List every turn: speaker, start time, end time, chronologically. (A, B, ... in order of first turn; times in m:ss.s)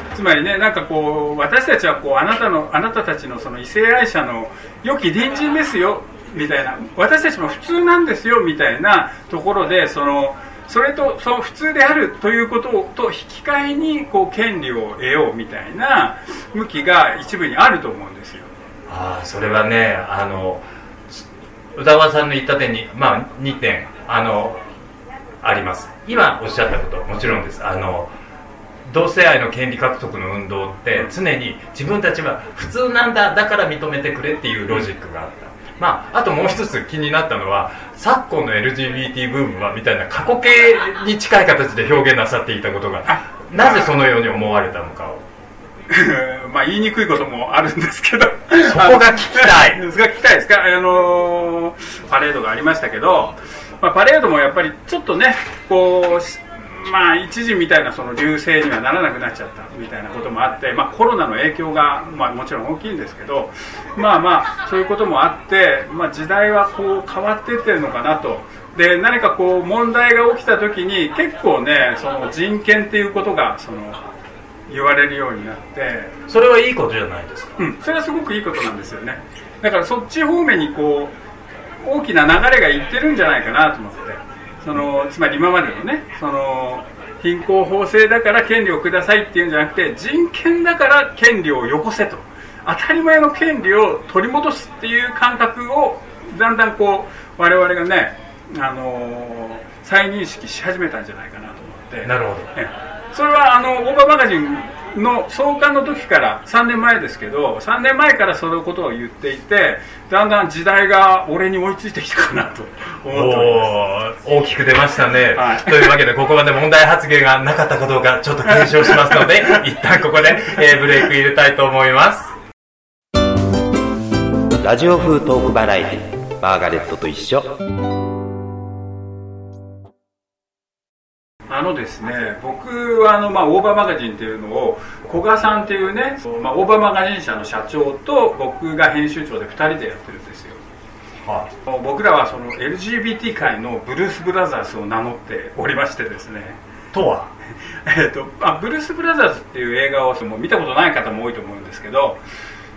0:00.1-0:18.5 A
0:18.9-0:24.6 B
0:25.4-0:28.1 B
0:28.9-0:45.2 B
0:43.1-0:43.9 A
0:45.9-1:14.0 A
0:48.6-0:49.8 B
1:14.7-1:16.2 A
1:16.3-1:17.6 B
1:17.6-1:21.1 A
1:21.8-1:53.7 A
1:42.0-1:42.5 B
1:53.1-2:02.3 B
1:55.3-1:56.0 A
1:58.6-1:59.5 A
2:04.6-2:07.5 C
2:11.5-2:20.6 A
2:21.2-2:21.5 B
2:21.6-2:26.6 A
2:26.9-2:27.3 B
2:27.7-2:32.2 A